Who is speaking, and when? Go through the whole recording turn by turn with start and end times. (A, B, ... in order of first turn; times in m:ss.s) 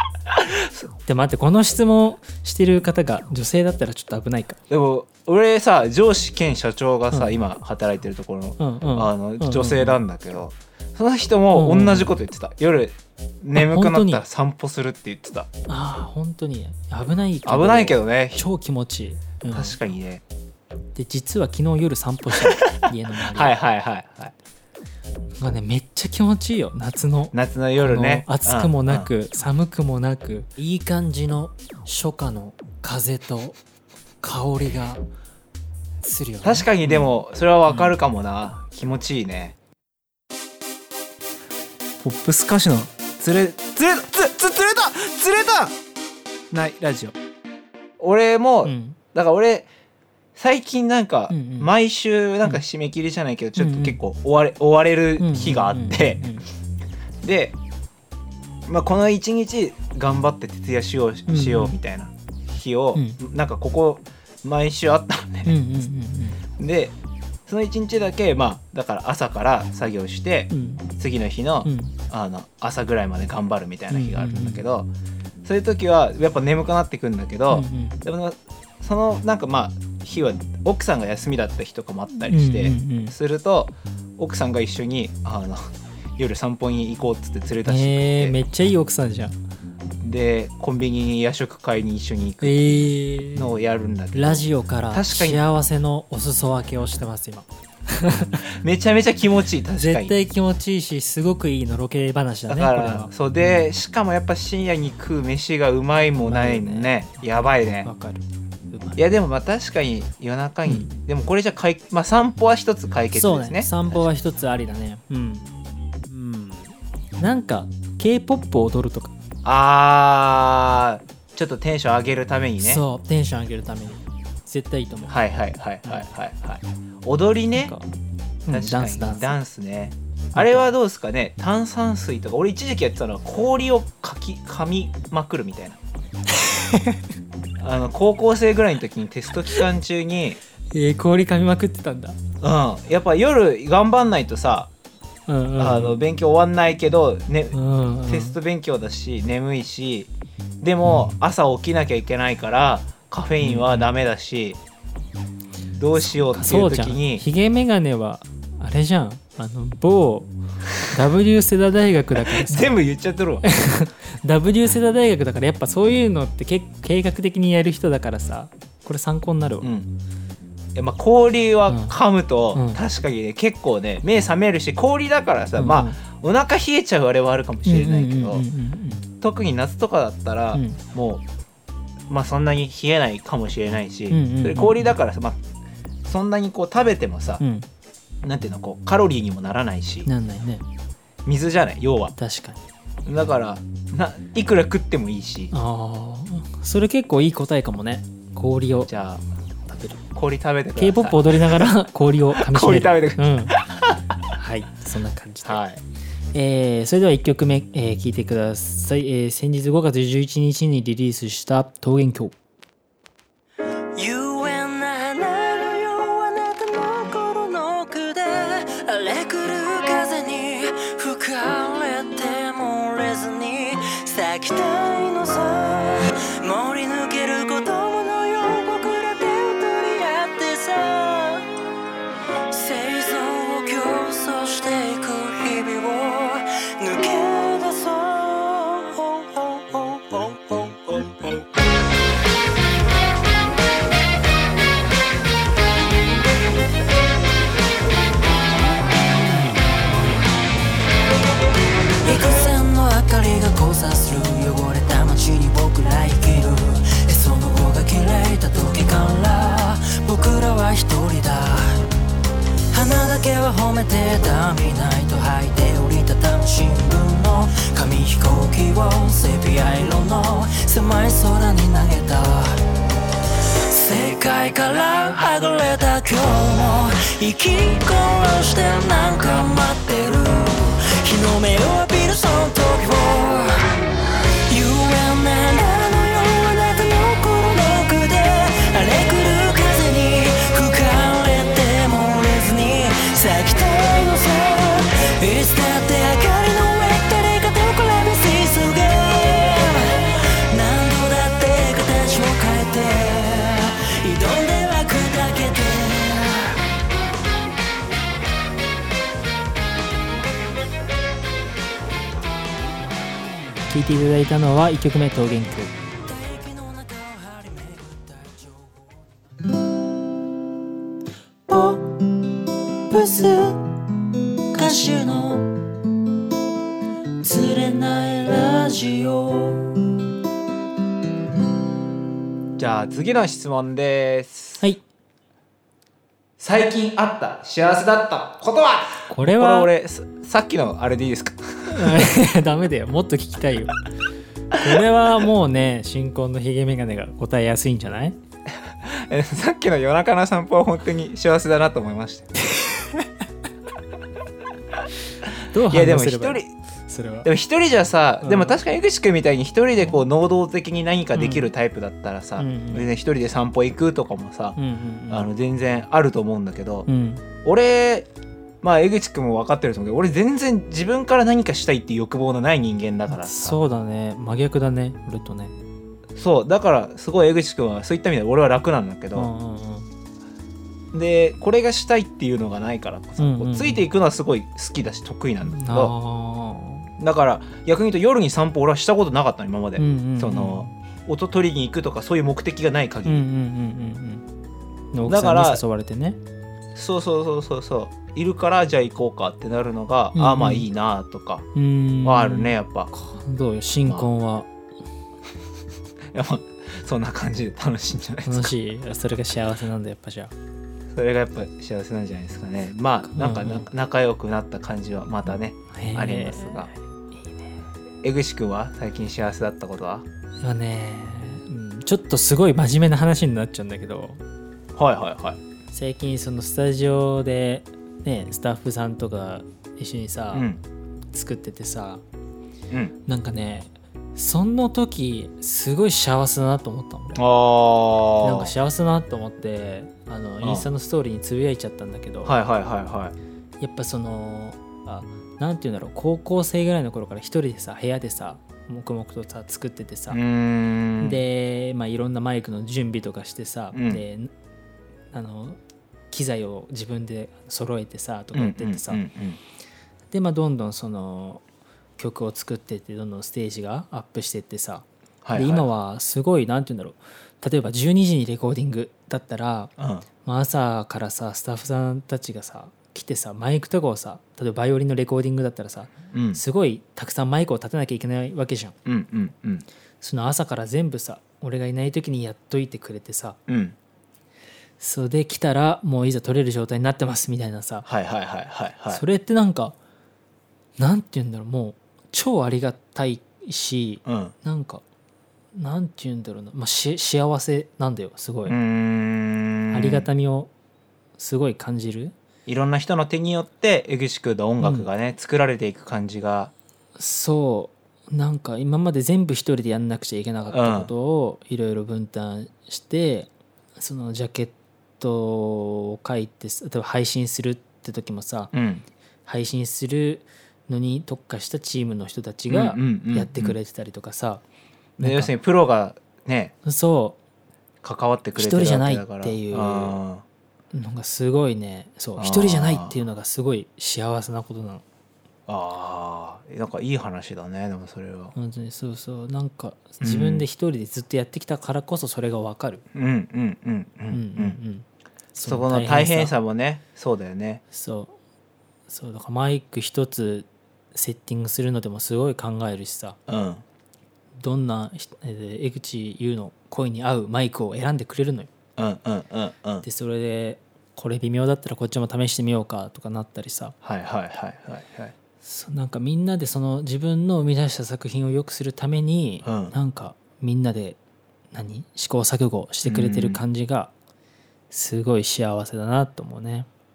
0:00.3-0:00.9 A
0:01.1-0:04.6 B
0:04.7-0:15.5 A
0:08.6-0:10.0 B
0:11.5-0:12.1 B
0:13.6-0:14.2 B
0:15.7-0:19.8 B
0:17.4-0:18.4 A
0:19.5-0:20.2 A
0:21.0-0:23.6 B
0:23.3-0:24.3 A
0:25.4-0:33.6 B
0:27.3-0:29.1 A
0:34.2-0:35.0 B
0:36.0-0:37.1 B
0:36.4-0:39.6 A
0:42.0-0:45.8 A
0:46.5-0:47.2 A
0:48.0-0:49.7 A
0:48.6-0:49.0 B
0:50.4-0:56.2 A
0:51.3-0:51.7 B
0:53.6-0:54.0 B
0:55.2-0:56.5 B
0:57.2-0:57.6 A
0:58.7-1:05.6 A
1:01.3-1:01.8 B
1:03.0-1:03.2 B
1:05.5-1:06.4 B
1:06.6-1:07.0 A
1:07.5-1:14.9 A
1:10.5-1:10.9 B
1:11.6-1:12.0 B
1:13.9-1:14.6 B
1:15.4-1:28.4 A
1:17.5-1:18.0 B
1:22.3-1:23.2 B
1:27.7-1:29.4 B
1:30.0-1:35.4 A
1:32.4-1:33.5 B
1:34.1-1:38.4 B
1:38.5-1:40.2 A
1:39.8-1:43.6 B
1:42.5-1:47.9 A
1:46.2-1:47.0 B
1:47.8-1:49.0 B
1:49.0-1:54.0 A
1:50.7-1:50.9 B
1:53.1-1:55.5 B
1:56.1-1:59.2 B
1:59.4-2:02.8 A
2:02.6-2:05.2 B
2:05.1-2:07.8 A
2:07.6-2:07.8 B
2:08.5-2:09.4 B
2:08.5-2:15.8 A
2:10.4-2:10.7 B
2:16.4-2:17.0 B
2:17.6-2:20.4 A
2:20.7-2:22.2 B
2:22.4-2:24.7 A
2:25.3-2:26.0 B
2:25.6-2:34.6 A
2:27.5-2:28.4 B
2:30.8-2:31.2 B
2:33.4-2:33.9 B
2:35.8-2:37.3 A
2:36.2-2:42.8 B
2:42.2-2:43.5 A
2:43.4-2:49.7 B
2:49.6-2:49.9 A
2:50.8-2:58.5 A
2:51.7-2:52.0 B
2:52.5-2:52.8 B
2:55.6-2:56.0 B
2:57.6-2:59.0 B
2:59.2-3:01.2 A
3:00.5-3:00.8 B
3:02.1-3:05.4 A
3:04.1-3:05.0 B
3:06.0-3:07.4 A
3:07.4-3:07.7 B
3:08.2-3:10.1 A
3:10.1-3:10.6 B
3:11.2-3:12.2 A
3:12.2-3:12.6 B
3:13.0-3:15.5 A
3:15.5-3:18.9 B
3:18.9-3:19.2 A
3:19.7-3:20.0 B
3:20.2-3:21.7 A
3:20.8-3:23.6 B
3:22.3-3:24.0 A
3:24.3-3:25.6 B
3:25.4-3:25.8 A
3:26.3-3:32.4 B
3:34.0-3:51.5 C
3:52.5-4:01.5 C
4:12.0-4:21.9 C
4:22.7-4:32.6 C
4:33.6-4:43.8 C
4:44.5-5:06.6 C
5:13.7-5:15.7 B
5:16.1-5:19.0 C
5:21.5-5:22.0 C
5:22.9-5:23.6 C
5:24.5-5:25.5 C
5:24.6-5:25.1 B
5:27.2-5:29.8 C
5:32.6-5:34.6 A
5:36.4-5:42.1 A
5:39.1-5:39.7 B
5:41.7-5:43.8 B
5:44.6-5:48.2 B
5:48.8-5:52.3 A
5:52.6-5:53.1 B
5:55.5-5:57.3 B
5:55.7-5:56.5 A
5:57.2-6:04.6 A
5:58.2-5:58.6 B
6:01.2-6:01.5 B
6:02.4-6:02.9 B
6:04.6-6:05.3 B
6:05.1-6:06.9 A
6:06.9-6:07.2 B
6:07.4-6:08.1 A
6:08.6-6:13.6 A
6:13.1-6:15.5 B
6:16.2-6:19.3 A
6:19.1-6:19.9 B
6:20.9-6:25.9 A
6:23.2-6:23.9 B
6:25.4-6:26.9 B
6:27.0-6:33.3 A
6:29.8-6:30.7 B
6:33.1-6:34.2 B
6:34.9-6:36.2 B
6:35.1-6:35.6 A
6:36.7-6:41.5 A
6:40.2-6:40.7 B
6:41.6-6:44.5 B
6:42.0-6:42.9 A
6:46.1-6:48.5 A
6:48.3-6:50.3 B
6:50.9-6:56.7 A
6:53.1-6:53.7 B
6:55.7-6:56.7 B
6:58.0-7:00.0 A
7:00.4-7:04.2 B
7:04.8-7:05.4 A
7:05.7-7:10.5 B
7:10.3-7:10.6 A
7:11.1-7:12.0 B
7:13.1-7:17.2 B
7:17.2-7:18.5 A
7:18.2-7:22.4 B
7:22.2-7:23.2 A
7:23.6-7:30.2 B
7:30.1-7:31.2 A
7:31.0-7:34.3 B
7:33.7-7:34.0 A
7:35.1-7:35.6 B
7:36.1-7:39.0 B
7:38.3-7:39.4 A
7:40.1-7:41.4 B
7:42.0-7:49.7 B
7:45.2-7:45.7 A
7:49.8-7:50.1 A
7:50.2-7:58.8 B
7:56.1-7:56.4 A
7:58.9-7:59.6 A
8:00.0-8:03.4 B
8:03.5-8:03.8 A
8:04.8-8:07.9 B
8:07.9-8:09.0 A
8:08.9-8:09.8 B
8:10.8-8:14.8 B
8:14.0-8:14.3 A
8:15.5-8:18.6 B
8:18.5-8:20.1 A
8:19.7-8:20.5 B
8:21.2-8:22.1 B
8:22.5-8:26.5 A
8:24.6-8:24.9 B
8:27.0-8:38.5 B
8:30.5-8:30.9 A
8:38.5-8:38.8 A
8:39.3-8:44.4 B
8:42.5-8:43.6 A
8:45.0-8:45.3 B
8:45.0-8:46.5 A
8:46.6-8:47.2 B
8:47.8-8:50.2 A
8:48.4-8:50.0 B
8:50.7-8:54.8 B
8:52.2-8:53.0 A
8:55.5-8:58.3 A
8:58.4-9:02.8 B
9:00.0-9:00.5 A
9:02.9-9:04.6 A
9:04.1-9:06.3 B
9:05.4-9:07.6 A
9:07.7-9:08.2 B
9:08.9-9:13.2 B
9:13.3-9:13.6 A
9:14.4-9:18.5 B
9:18.8-9:19.8 A
9:19.8-9:23.8 B
9:23.8-9:25.1 A
9:25.4-9:31.0 B
9:29.4-9:29.8 A
9:31.5-9:33.9 B
9:32.8-9:33.4 A
9:34.7-9:36.7 B